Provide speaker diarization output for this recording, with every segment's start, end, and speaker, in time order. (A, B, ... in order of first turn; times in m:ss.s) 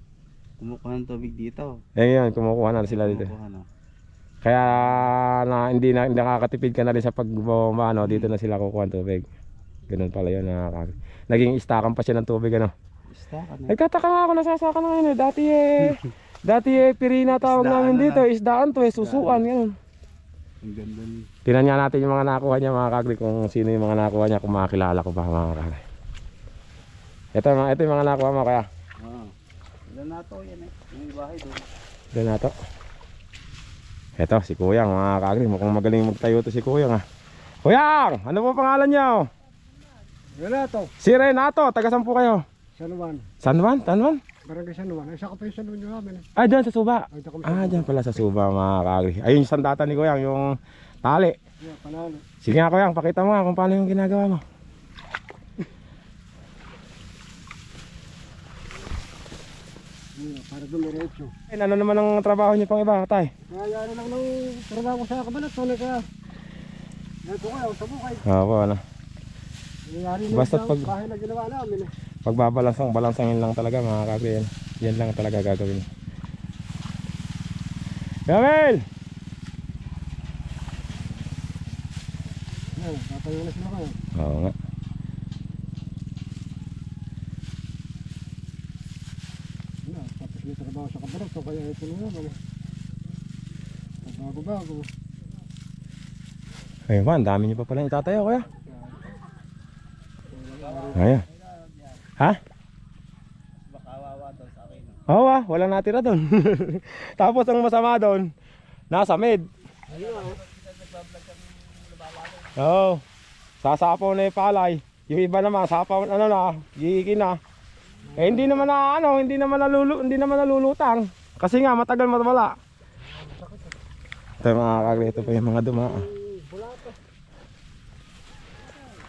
0:00.6-0:01.7 A
0:02.0-0:03.3 B
0:02.8-0:03.6 A
0:04.4-0:09.2 B
0:04.7-0:05.0 A
0:08.0-0:08.3 A
0:09.9-0:12.7 B
0:13.1-0:13.8 A
0:13.7-0:19.7 B
0:17.4-0:18.2 A
0:19.0-0:19.5 A
0:20.6-0:21.3 A
0:21.4-0:25.8 B
0:27.3-0:28.6 B
0:29.0-0:29.3 A
0:29.9-0:31.6 A
0:32.1-0:32.5 B
0:34.2-0:37.0 B
0:37.6-0:39.3 B
0:40.4-0:40.9 C
0:41.0-0:42.4 B
0:42.8-0:43.3 C
0:43.4-0:44.2 B
0:44.4-0:46.2 C
0:46.4-0:50.5 B
0:47.1-0:47.9 C
0:51.0-0:51.4 B
0:51.6-0:52.2 C
0:52.4-0:54.4 B
1:00.2-1:01.3 C
1:01.5-1:03.3 B
1:03.5-1:06.1 C
1:07.2-1:08.2 C
1:08.2-1:08.8 B
1:09.8-1:11.9 C
1:10.3-1:10.9 B
1:12.2-1:15.9 B
1:18.3-1:18.8 B
1:22.7-1:24.0 C
1:24.1-1:24.5 B
1:29.8-1:32.4 C
1:34.0-1:34.9 C
1:36.9-1:38.5 B
1:40.3-1:40.9 C
1:40.5-1:42.1 A
1:40.9-1:41.2 B
1:43.6-1:45.0 A
1:45.1-1:48.3 B
1:48.9-1:49.4 B
1:49.9-1:52.6 A
1:52.6-1:53.0 B
1:53.6-1:57.4 B
1:58.2-2:02.5 B
2:03.1-2:03.7 C
2:04.4-2:06.1 B
2:06.0-2:07.0 C